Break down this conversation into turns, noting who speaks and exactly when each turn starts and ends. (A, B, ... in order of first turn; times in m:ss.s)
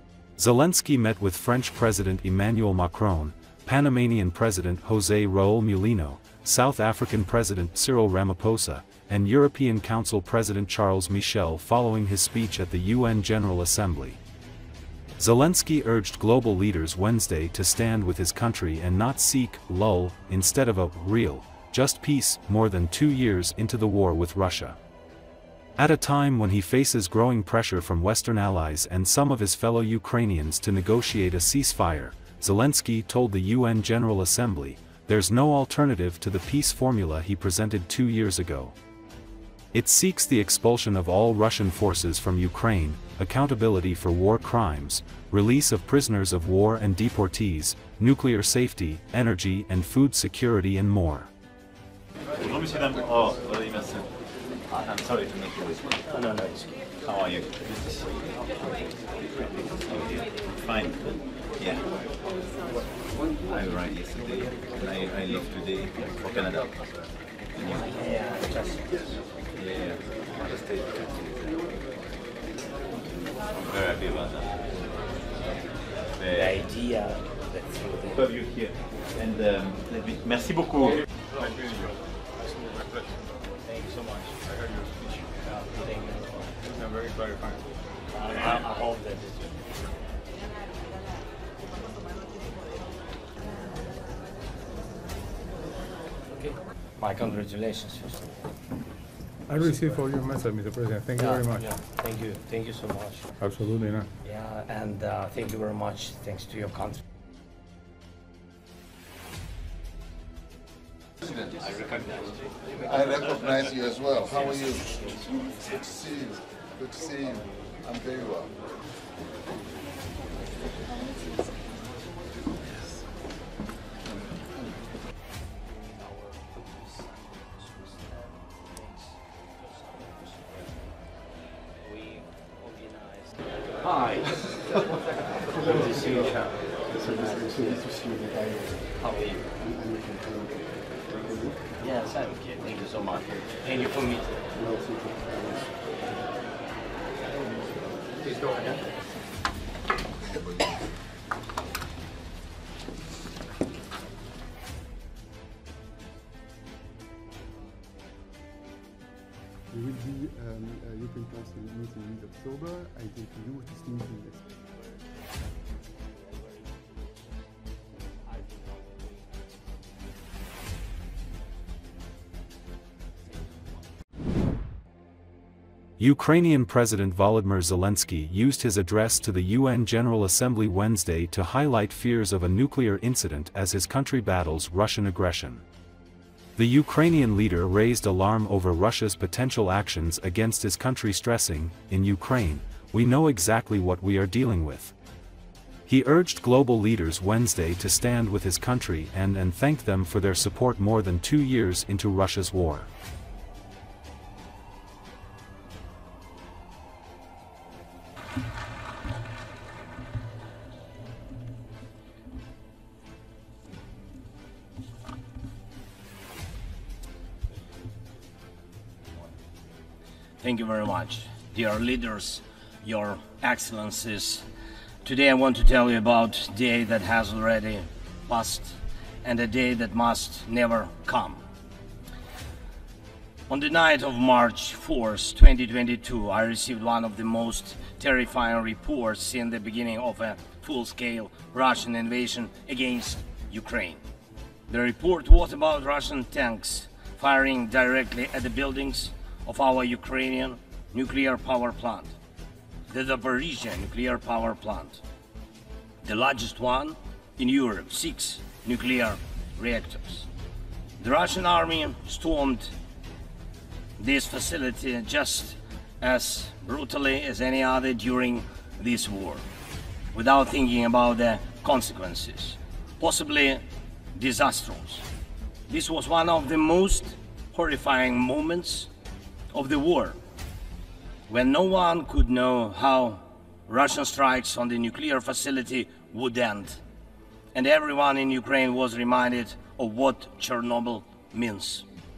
0:00.4-0:14.2 A
0:15.2-0:24.8 A
0:25.8-0:38.8 A
0:39.7-0:51.3 A
0:52.4-0:54.1 B
0:54.7-0:56.0 B
0:56.1-0:56.7 C
0:57.0-0:58.4 B
0:59.2-1:02.0 B
1:03.2-1:07.8 B
1:07.6-1:09.2 C
1:09.6-1:11.7 B
1:13.5-1:15.0 B
1:16.1-1:16.6 B
1:16.3-1:18.2 C
1:18.1-1:21.1 B
1:23.6-1:24.4 C
1:25.4-1:26.6 C
1:26.6-1:27.7 D
1:28.1-1:29.6 C
1:36.3-1:38.3 C
1:39.5-1:41.6 D
1:39.6-1:40.0 C
1:41.1-1:43.3 C
1:43.4-1:44.1 D
1:44.2-1:47.0 C
1:51.2-1:51.6 E
1:52.8-1:58.5 E
2:05.5-2:10.9 C
2:11.8-2:17.9 C
2:17.2-2:18.7 F
2:18.4-2:18.8 E
2:19.0-2:19.4 C
2:19.6-2:20.6 F
2:21.2-2:21.6 F
2:21.8-2:24.4 C
2:24.6-2:25.6 F
2:24.6-2:25.7 E
2:28.2-2:28.8 C
2:39.7-2:44.4 F
2:44.6-2:47.4 C
2:48.2-2:49.3 C
2:53.3-2:53.6 C
2:56.0-3:05.6 A
3:06.6-3:14.9 A
3:15.9-3:22.9 A
3:40.4-3:44.5 C
3:45.0-3:51.4 C
3:53.5-4:04.0 C
4:04.7-4:12.1 C
4:12.9-4:15.0 C
4:16.0-4:20.3 C
4:21.0-4:22.7 C
4:24.0-4:29.4 C
4:30.1-4:33.6 C
4:34.1-4:35.0 C
4:35.7-4:38.9 C
4:39.5-4:40.2 C
4:41.3-4:46.8 C
4:47.5-4:51.8 C